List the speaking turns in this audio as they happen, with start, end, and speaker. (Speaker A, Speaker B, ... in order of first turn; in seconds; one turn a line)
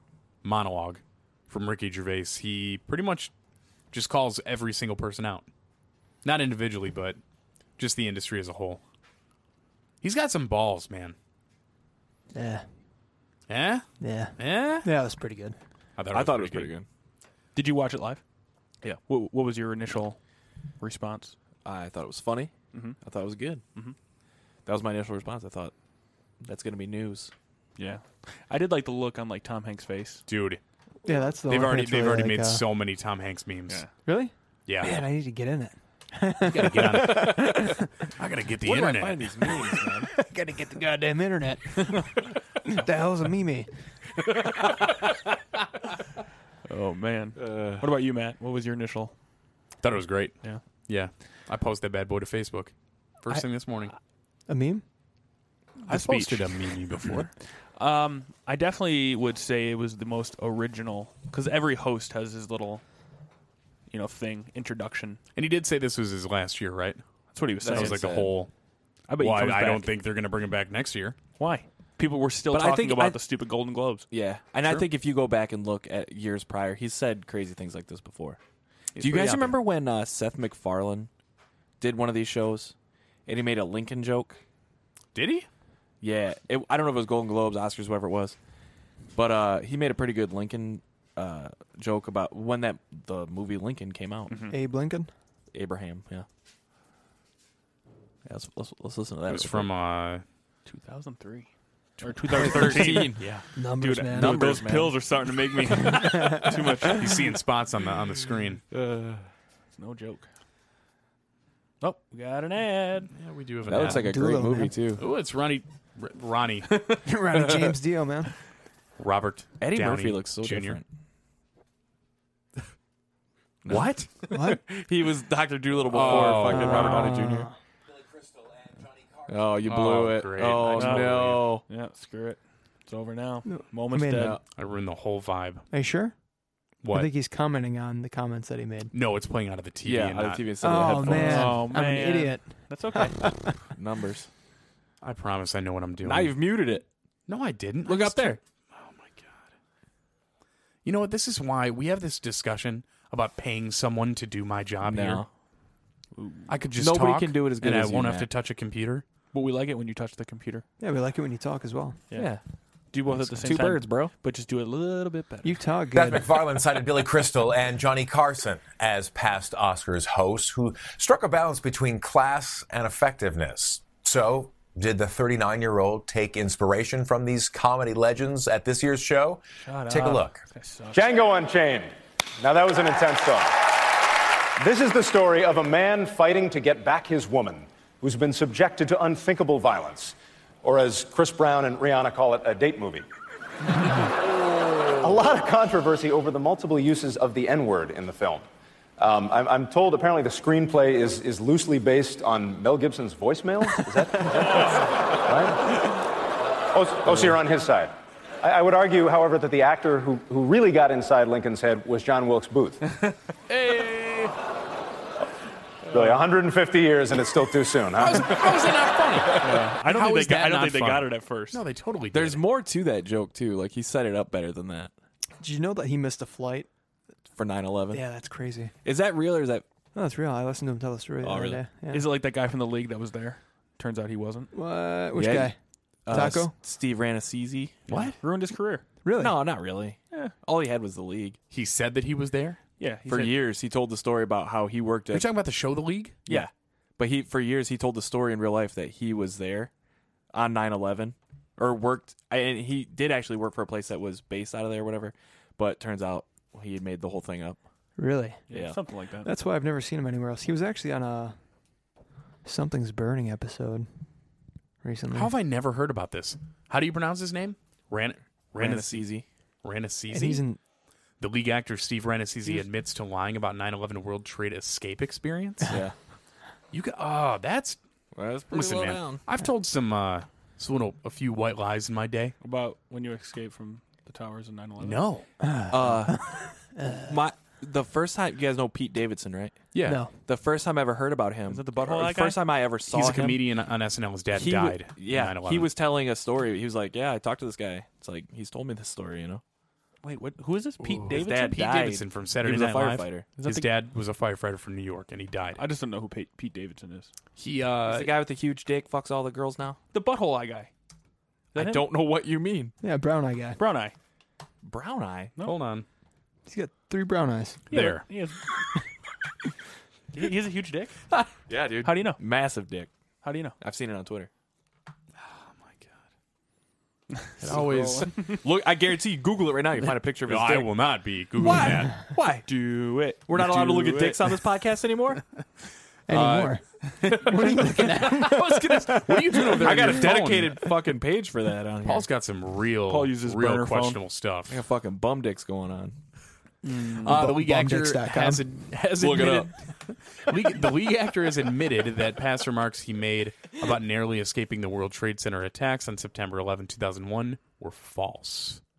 Speaker A: 0.4-3.3
Speaker A: 3.9-5.5
Speaker A: 6.2-7.2
Speaker A: 7.8-8.8
Speaker A: 10.0-11.2
Speaker B: 12.3-12.7
Speaker A: 13.5-14.9
Speaker B: 14.0-15.6
Speaker A: 16.0-16.7
Speaker C: 16.1-16.9
Speaker D: 17.5-18.2
Speaker D: 19.1-20.2
Speaker D: 20.8-21.4
Speaker C: 21.6-23.6
Speaker C: 24.7-25.7
Speaker C: 26.4-27.3
Speaker D: 27.8-30.2
Speaker A: 30.3-30.6
Speaker B: 31.0-32.6
Speaker A: 31.5-33.9
Speaker B: 34.0-37.8
Speaker A: 34.7-35.0
Speaker A: 36.4-39.5
Speaker C: 38.6-40.1
Speaker B: 40.1-43.7
Speaker D: 46.6-49.1
Speaker C: 47.4-47.9
Speaker A: 49.8-53.9
Speaker B: 54.5-54.8
Speaker D: 55.9-57.1
Speaker A: 55.9-57.3
Speaker D: 57.8-62.8
Speaker D: 63.9-65.2
Speaker A: 65.4-67.0
Speaker D: 67.3-68.2
Speaker C: 67.6-68.3
Speaker A: 67.6-68.5
Speaker D: 69.1-69.9
Speaker A: 69.2-71.2
Speaker D: 71.4-74.1
Speaker C: 72.5-73.2
Speaker C: 74.1-78.4
Speaker C: 79.0-81.1
Speaker D: 79.0-79.5
Speaker A: 79.0-79.4
Speaker C: 81.8-82.7
Speaker C: 83.3-84.4
Speaker A: 85.1-85.5
Speaker C: 86.0-88.4
Speaker C: 89.1-94.4
Speaker D: 94.3-94.6
Speaker B: 94.5-95.1
Speaker C: 95.5-96.3
Speaker C: 98.3-99.7
Speaker A: 99.3-100.2
Speaker D: 100.7-101.5
Speaker D: 102.0-107.3
Speaker C: 102.3-103.4
Speaker B: 102.4-104.6
Speaker C: 104.1-105.1
Speaker B: 105.8-106.5
Speaker A: 106.9-108.6
Speaker C: 108.7-109.3
Speaker D: 109.8-110.3
Speaker D: 111.8-113.1
Speaker A: 113.1-114.1
Speaker C: 113.7-115.0
Speaker B: 113.8-114.8
Speaker A: 115.0-116.9
Speaker B: 117.0-118.3
Speaker A: 119.0-120.8
Speaker C: 119.6-120.8
Speaker C: 123.7-127.5
Speaker A: 123.7-124.1
Speaker B: 124.3-124.6
Speaker A: 125.9-127.3
Speaker B: 126.3-127.5
Speaker C: 129.3-131.6
Speaker A: 129.6-131.5
Speaker D: 130.7-134.4
Speaker B: 133.5-134.4
Speaker C: 134.2-134.4
Speaker A: 134.5-135.7
Speaker B: 135.7-136.1
Speaker A: 136.8-137.1
Speaker B: 136.9-138.9
Speaker A: 138.9-141.1
Speaker C: 139.8-141.6
Speaker B: 140.6-143.6
Speaker D: 141.1-143.2
Speaker C: 143.6-144.3
Speaker A: 145.0-146.4
Speaker C: 146.0-146.9
Speaker A: 147.3-149.3
Speaker C: 147.9-148.3
Speaker A: 150.8-155.2
Speaker C: 154.8-155.3
Speaker D: 156.2-156.5
Speaker A: 156.5-159.1
Speaker C: 156.8-158.3
Speaker D: 159.3-160.7
Speaker B: 160.8-162.0
Speaker C: 162.1-162.4
Speaker D: 162.9-165.6
Speaker C: 163.2-164.1
Speaker B: 165.4-166.3
Speaker E: 165.9-180.4
Speaker D: 179.6-181.1
Speaker F: 180.9-183.7
Speaker F: 184.6-193.1
Speaker F: 193.7-194.1
Speaker F: 195.0-198.5
Speaker F: 199.0-206.0
Speaker F: 206.7-212.8
Speaker A: 213.5-214.3
Speaker F: 215.9-218.5
Speaker A: 218.0-222.4
Speaker D: 219.4-221.6
Speaker C: 222.1-224.9
Speaker B: 225.4-226.7
Speaker C: 227.3-228.0
Speaker B: 227.9-228.7
Speaker C: 228.8-229.6
Speaker B: 229.9-232.1
Speaker C: 231.2-231.6
Speaker D: 231.9-234.5
Speaker B: 234.5-235.6
Speaker C: 235.2-235.5
Speaker C: 236.1-237.9
Speaker B: 236.1-236.6
Speaker A: 237.9-238.2
Speaker D: 237.9-238.8
Speaker B: 239.0-239.4
Speaker C: 239.2-241.4
Speaker A: 241.5-242.6
Speaker D: 242.8-243.3
Speaker C: 243.1-245.3
Speaker A: 245.1-246.3
Speaker C: 246.3-249.7
Speaker C: 250.3-257.6
Speaker B: 258.0-258.4
Speaker D: 258.5-259.3
Speaker C: 258.5-258.8
Speaker B: 259.2-261.4
Speaker B: 262.4-263.9
Speaker B: 264.8-265.3
Speaker A: 265.1-269.1
Speaker C: 268.6-269.3
Speaker A: 269.6-270.4
Speaker B: 270.1-270.6
Speaker A: 271.2-275.8
Speaker C: 275.7-275.9
Speaker A: 276.7-277.8
Speaker C: 278.1-279.2
Speaker A: 278.5-282.4
Speaker D: 282.4-285.0
Speaker A: 284.8-285.3
Speaker B: 285.4-287.1
Speaker C: 285.7-293.4
Speaker A: 289.7-290.0
Speaker B: 289.8-290.1
Speaker D: 291.5-292.4
Speaker A: 292.9-295.7
Speaker C: 294.3-299.4
Speaker D: 300.0-301.5
Speaker A: 300.8-305.6
Speaker C: 301.1-303.3
Speaker D: 303.4-303.7
Speaker D: 305.6-307.1
Speaker A: 307.4-308.1
Speaker C: 307.9-309.8
Speaker D: 309.9-310.7
Speaker D: 311.5-311.9
Speaker C: 311.6-312.7
Speaker B: 312.8-313.6
Speaker D: 313.6-314.0
Speaker C: 314.6-315.3
Speaker A: 315.4-315.9
Speaker B: 316.5-317.7
Speaker D: 317.7-318.6
Speaker A: 317.7-318.1
Speaker D: 320.1-321.0
Speaker C: 321.4-322.9
Speaker D: 321.8-322.2
Speaker D: 323.2-323.6
Speaker C: 323.6-324.3
Speaker A: 325.2-325.9
Speaker D: 327.3-328.4
Speaker A: 327.4-328.4
Speaker C: 327.4-330.7
Speaker A: 330.2-332.0
Speaker C: 331.4-332.5
Speaker D: 332.4-334.4
Speaker C: 333.3-335.2
Speaker B: 336.1-338.4
Speaker A: 336.1-336.6
Speaker A: 337.1-340.7
Speaker C: 337.1-342.1
Speaker A: 341.8-344.6
Speaker D: 342.9-344.0
Speaker C: 344.5-346.0
Speaker B: 346.7-348.5
Speaker A: 346.9-358.6
Speaker C: 349.0-349.5